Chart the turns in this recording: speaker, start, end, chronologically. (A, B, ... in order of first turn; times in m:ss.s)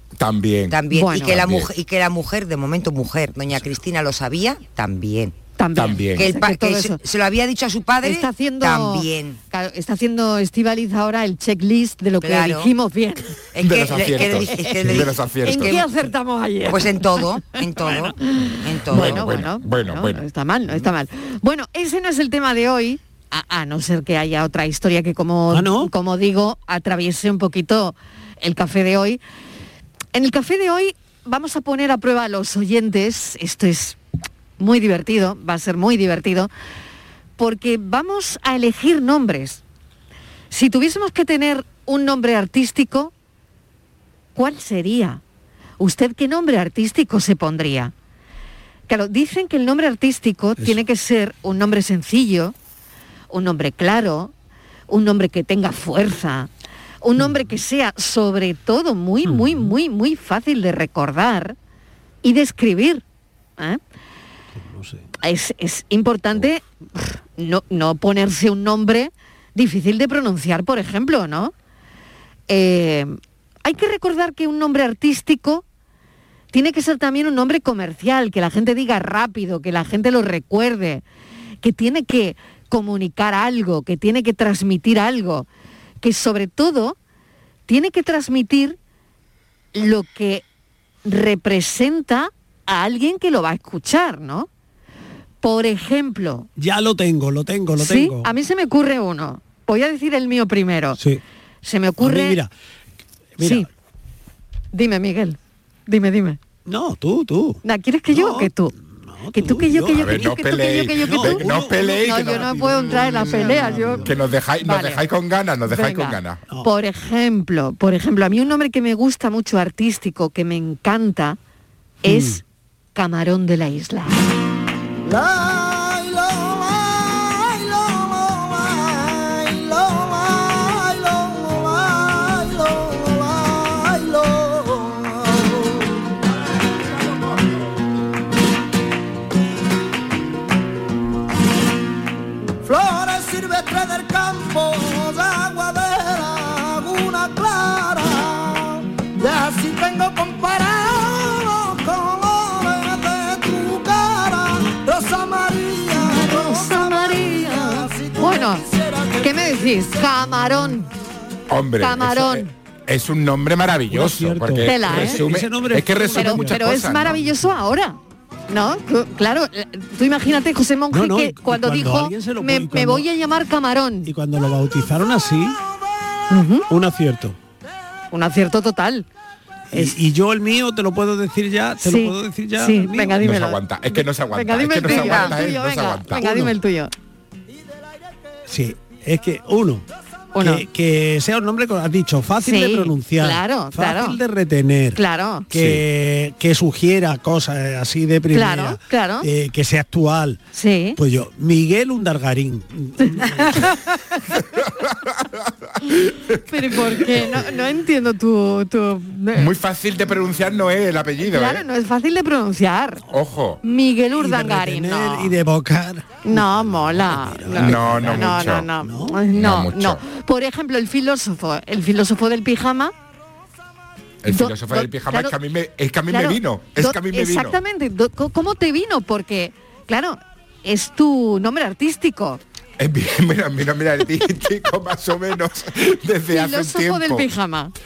0:00.2-0:01.7 A
0:00.7-0:05.4 B
0:00.9-0:01.4 C
0:05.6-0:07.0 C
0:05.8-0:06.4 A
0:06.2-0:09.4 B
0:08.0-0:13.3 C
0:12.2-0:12.7 B
0:13.5-0:15.8 B
0:13.6-0:15.8 A
0:14.1-0:17.2 C
0:16.6-0:19.4 B
0:18.3-0:29.2 C
0:18.9-0:20.2 A
0:25.5-0:25.9 D
0:30.1-0:34.0 C
0:34.6-0:36.5 C
0:37.4-0:39.6 C
0:40.5-0:43.1 C
0:44.4-0:45.2 C
0:45.8-0:47.9 C
0:48.9-0:52.6 C
0:50.6-0:50.8 D
0:53.3-0:54.3 C
0:54.9-0:56.5 C
0:57.0-1:01.6 C
0:57.2-0:57.5 D
0:59.2-0:59.8 D
1:02.2-1:03.0 C
1:04.5-1:05.0 D
1:05.2-1:11.5 C
1:12.5-1:15.6 C
1:16.5-1:21.0 C
1:21.6-1:25.5 C
1:26.0-1:27.0 C
1:27.7-1:28.8 C
1:29.7-1:30.4 C
1:31.0-1:34.5 C
1:35.4-1:36.5 C
1:36.6-1:38.3 D
1:37.8-1:41.0 C
1:41.0-1:41.2 D
1:41.6-1:42.4 C
1:42.0-1:42.5 D
1:43.4-1:43.7 D
1:43.4-1:43.7 C
1:44.7-1:46.4 C
1:46.7-1:50.3 D
1:47.6-1:48.7 C
1:49.3-1:55.0 C
1:50.0-1:56.4 A
1:51.1-1:54.2 D
1:55.7-2:01.4 C
2:02.0-2:02.4 C
2:02.0-2:02.4 D
2:03.0-2:04.2 C
2:05.0-2:15.9 E
2:22.6-2:39.9 E
2:36.0-2:38.6 C
2:39.2-2:40.9 C
2:41.5-2:47.2 A
2:41.8-2:42.5 C
2:43.9-2:46.6 D
2:44.6-2:45.2 C
2:46.1-2:48.0 C
2:48.5-2:54.1 C
2:50.9-2:53.1 D
2:54.0-2:55.6 D
2:56.3-2:56.7 C
2:56.7-2:57.4 D
2:58.1-2:59.1 C
2:59.7-3:03.2 D
3:01.8-3:06.9 C
3:03.2-3:06.2 A
3:04.8-3:05.4 B
3:06.2-3:06.6 D
3:08.5-3:09.8 D
3:10.3-3:10.6 C
3:10.4-3:20.4 D
3:12.4-3:14.2 C
3:15.0-3:15.5 C
3:15.6-3:15.8 A
3:18.3-3:19.3 C
3:20.5-3:21.0 C
3:21.0-3:23.7 D
3:23.0-3:23.8 C
3:24.8-3:25.3 A
3:25.9-3:26.4 A
3:26.5-3:29.5 C
3:29.3-3:31.6 A
3:31.2-3:33.0 C
3:33.1-3:33.6 A
3:33.6-3:35.3 C
3:34.2-3:39.2 D
3:36.2-3:42.9 C
3:37.6-3:38.7 A
3:39.3-3:40.0 A
3:44.2-3:47.6 A
3:44.3-3:45.4 C
3:46.1-3:52.4 C
3:52.8-3:57.3 A
3:56.3-3:57.7 C